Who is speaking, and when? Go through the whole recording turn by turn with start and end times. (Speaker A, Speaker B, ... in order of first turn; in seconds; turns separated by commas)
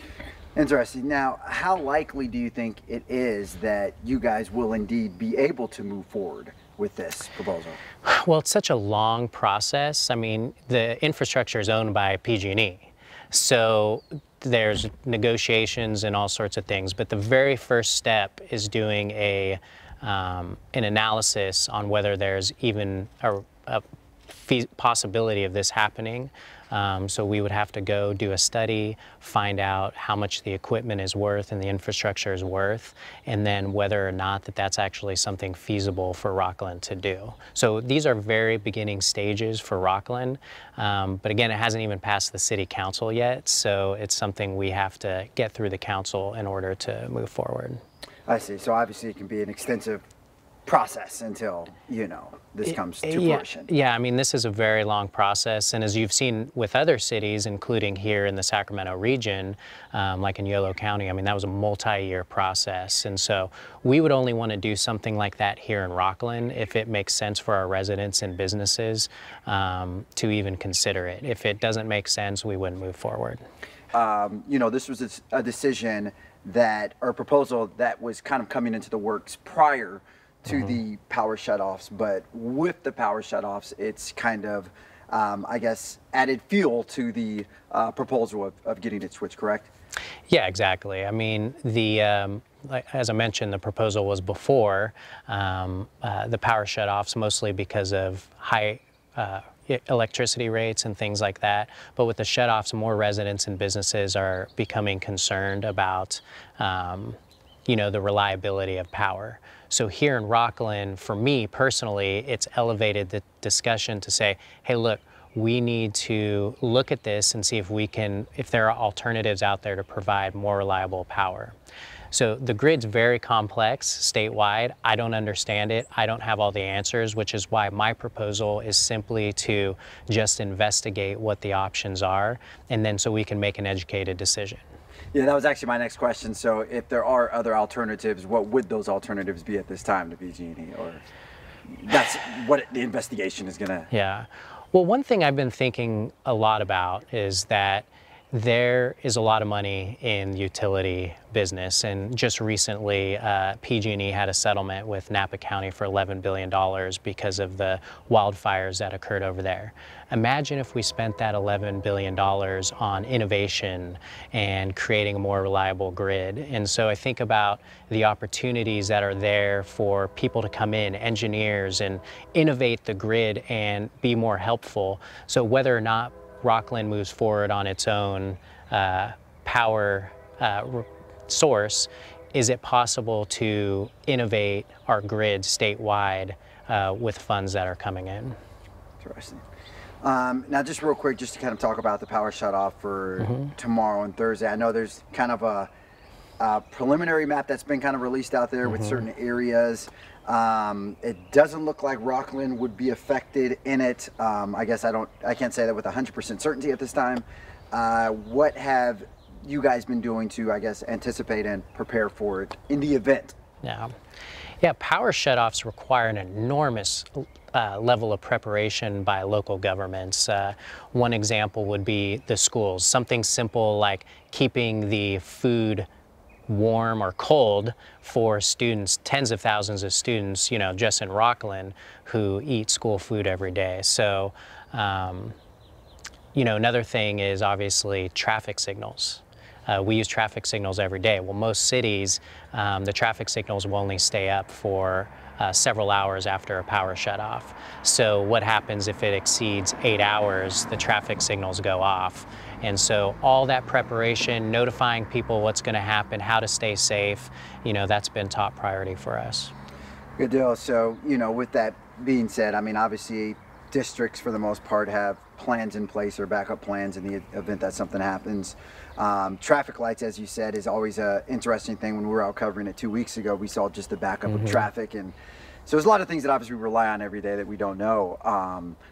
Speaker A: 0.5-7.8, Speaker B: 8.0-47.8, Speaker A: 48.3-50.0, Speaker A: 50.6-53.7, Speaker B: 52.7-73.4, Speaker A: 73.9-89.7, Speaker B: 90.3-121.6, Speaker B: 122.1-134.6, Speaker A: 135.1-141.0, Speaker A: 141.7-143.9, Speaker B: 143.9-188.3, Speaker A: 189.0-189.4, Speaker A: 190.0-195.7, Speaker B: 193.2-193.5, Speaker A: 196.4-213.4, Speaker B: 198.6-199.0, Speaker B: 213.6-213.9, Speaker B: 214.6-225.9, Speaker B: 226.5-235.3, Speaker B: 236.3-259.5, Speaker A: 260.2-278.8, Speaker B: 274.3-274.6